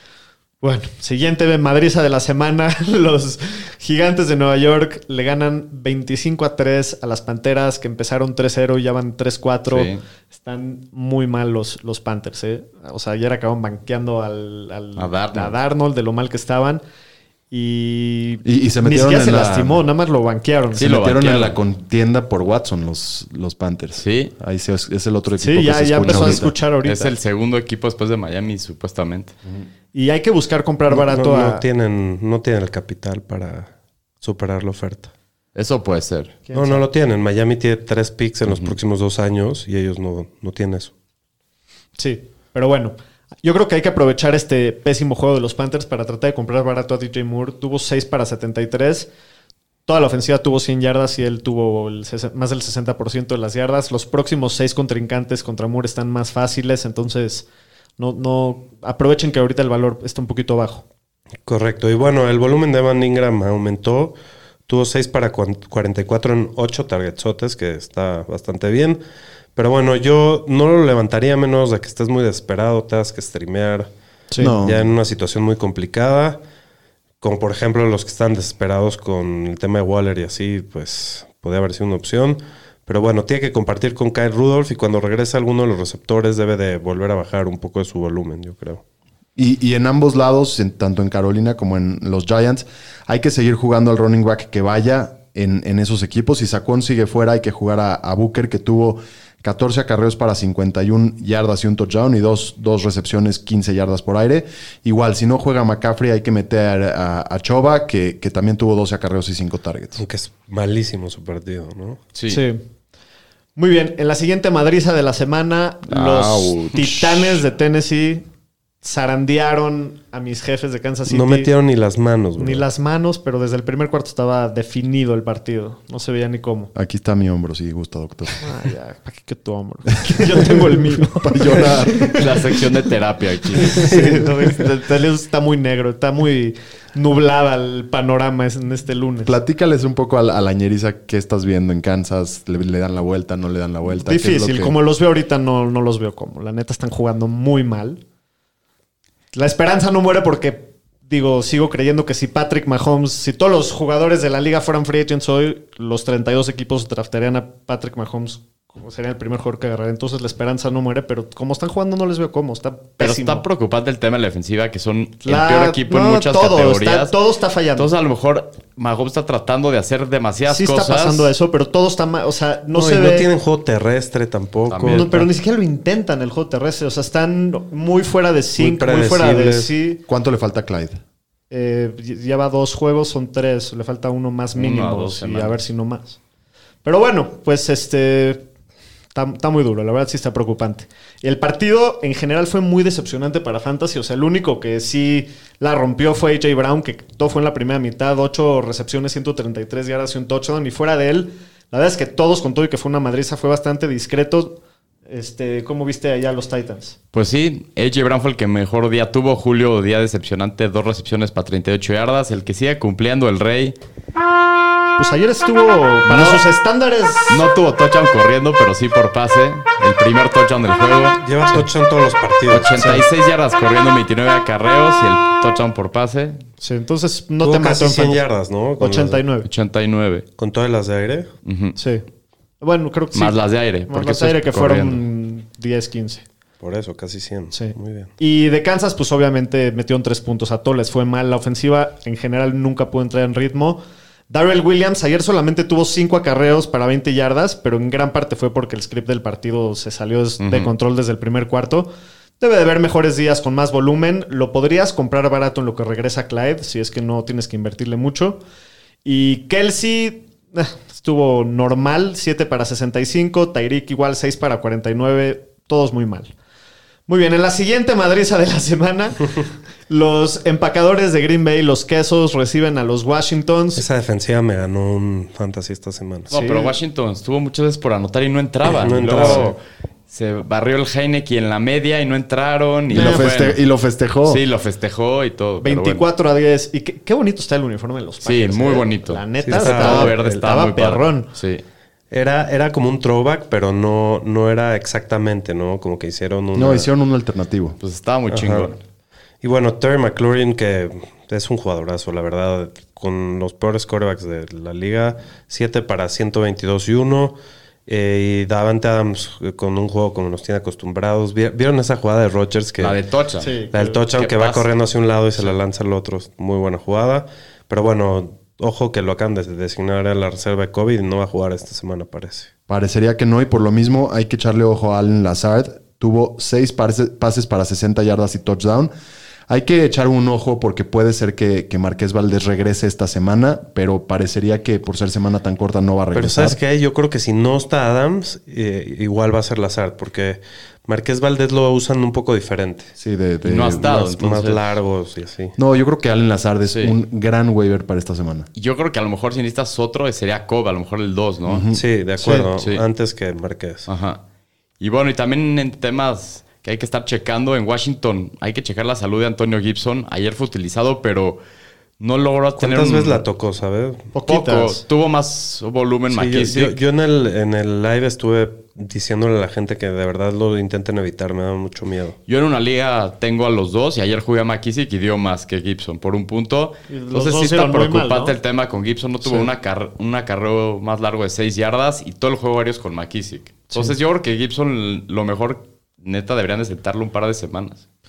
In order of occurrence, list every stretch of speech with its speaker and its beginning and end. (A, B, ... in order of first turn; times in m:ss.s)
0:00.6-0:16.8 A
0:09.7-0:10.0 B
0:15.0-0:15.5 B
0:17.5-0:20.9 A
0:18.4-0:19.8 C
0:20.8-0:21.6 B
0:20.8-0:26.5 C
0:24.0-0:24.3 B
0:25.4-0:27.1 A
0:26.0-0:29.3 B
0:29.9-0:31.6 A
0:30.9-0:35.1 D
0:35.5-0:36.4 B
0:36.5-0:36.8 A
0:36.5-0:40.9 D
0:38.4-0:38.7 B
0:42.0-0:49.1 A
0:49.9-0:57.4 A
0:58.0-1:00.8 A
1:01.4-1:04.2 D
1:04.7-1:09.0 D
1:09.5-1:13.9 D
1:14.4-1:14.9 C
1:14.6-1:16.4 D
1:17.2-1:28.8 D
1:29.4-1:50.0 C
1:50.0-1:52.0 D
1:52.1-1:52.4 B
1:52.3-1:52.6 A
1:53.6-1:58.2 A
1:55.9-1:57.4 C
1:58.8-2:01.5 A
2:01.1-2:02.6 D
2:02.4-2:06.7 A
2:06.7-2:08.4 C
2:08.4-2:12.4 A
2:10.2-2:12.2 C
2:12.1-2:13.9 B
2:13.6-2:19.4 A
2:13.8-2:14.2 D
2:19.2-2:24.7 C
2:24.0-2:28.0 A
2:29.3-2:43.4 A
2:43.0-2:47.1 B
2:45.2-2:47.9 A
2:47.8-2:51.3 B
2:50.5-2:53.3 A
2:52.7-2:55.3 D
2:54.7-2:55.1 B
2:54.9-3:00.0 A
2:58.6-2:59.7 D
3:00.1-3:01.0 C
3:01.5-3:06.2 A
3:04.5-3:05.6 B
3:06.8-3:08.5 A
3:09.1-3:27.0 A
3:27.1-3:33.8 B
3:35.0-3:37.4 A
3:36.1-3:36.4 B
3:37.3-3:41.2 B
3:41.2-3:42.8 D
3:42.5-3:46.4 B
3:42.8-3:43.0 A
3:46.6-3:48.2 A
3:47.4-3:49.2 D
3:48.8-3:49.5 A
3:49.4-3:50.2 B
3:50.4-3:51.3 D
3:51.4-3:51.8 B
3:51.8-3:52.0 A
3:52.6-3:53.4 A
3:53.1-3:55.0 B
3:53.9-3:56.2 A
3:56.6-3:58.1 D
3:57.5-4:18.4 A
4:10.4-4:10.7 B
4:19.0-4:26.3 A
4:27.1-4:29.3 A
4:29.9-4:33.8 A
4:33.8-4:36.3 D
4:36.3-4:36.8 A
4:36.3-4:39.6 B
4:38.7-4:39.6 D
4:39.1-4:39.5 A
4:40.1-4:43.6 B
4:42.9-4:44.4 C
4:42.9-4:43.2 A
4:44.2-4:46.0 B
4:45.6-4:51.3 A
4:48.2-4:51.6 B
4:49.4-4:50.4 D
4:52.1-4:56.9 D
4:56.5-4:57.8 C
4:57.8-4:58.8 B
4:58.3-4:58.7 D
4:59.4-5:13.0 D
5:12.8-5:13.5 B
5:13.4-5:14.0 A
5:13.7-5:22.5 D
5:14.2-5:14.7 B
5:22.7-5:28.9 C
5:29.5-5:36.6 C
5:36.1-5:42.9 D
5:43.0-5:44.0 C
5:43.4-5:44.6 B
5:43.8-5:45.6 D
5:45.6-5:48.5 C
5:46.7-5:46.9 B
5:48.6-5:51.7 B
5:51.4-5:51.8 C
5:51.7-5:53.9 D
5:52.2-5:52.5 A
5:52.6-5:52.8 B
5:53.9-5:54.2 B
5:54.8-6:01.4 B
6:02.0-6:03.2 B
6:02.6-6:04.1 D
6:04.1-6:04.8 A
6:04.3-6:06.8 B
6:06.1-6:12.2 D
6:12.3-6:27.8 B
6:16.9-6:18.4 A